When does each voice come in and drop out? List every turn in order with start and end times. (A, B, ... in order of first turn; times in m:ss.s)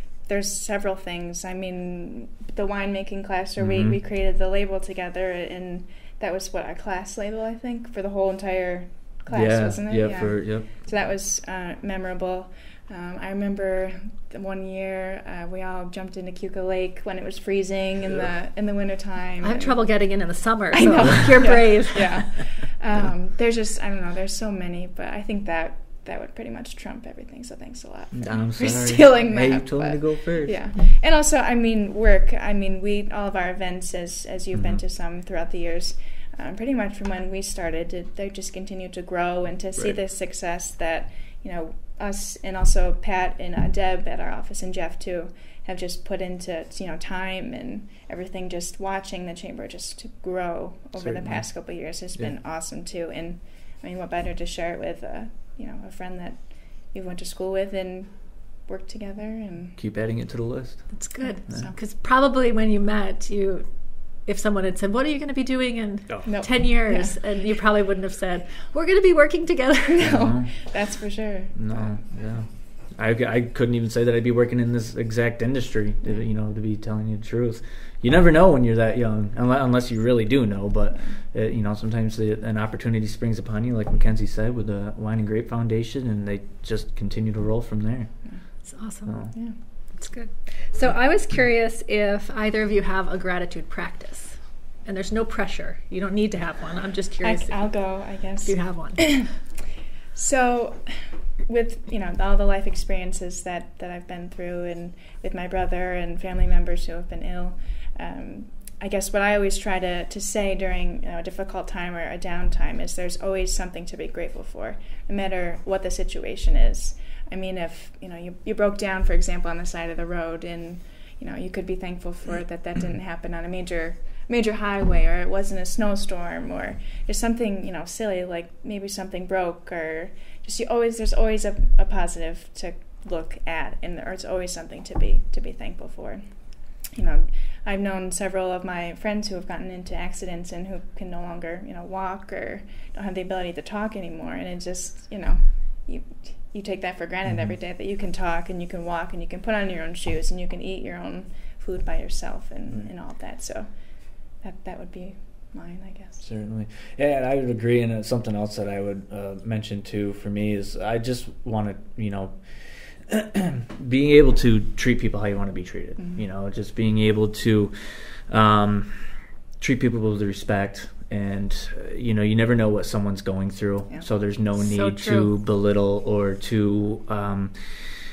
0:00.2-0:19.8 A
0:03.6-0:04.0 B
0:09.3-0:10.7 B
0:19.4-0:22.3 C
0:20.7-0:59.8 A
0:28.1-0:30.6 B
0:34.5-0:34.8 B
0:51.0-0:52.3 B
0:59.8-1:01.6 B
1:00.9-1:10.1 C
1:01.2-1:01.8 A
1:06.2-1:07.2 A
1:09.9-1:12.0 A
1:10.0-1:10.7 B
1:11.5-1:28.2 B
1:28.6-1:29.3 C
1:29.0-1:29.3 B
1:29.9-1:39.3 C
1:37.2-1:39.3 A
1:40.1-2:36.2 A
2:36.2-2:57.7 B
2:54.6-2:55.3 C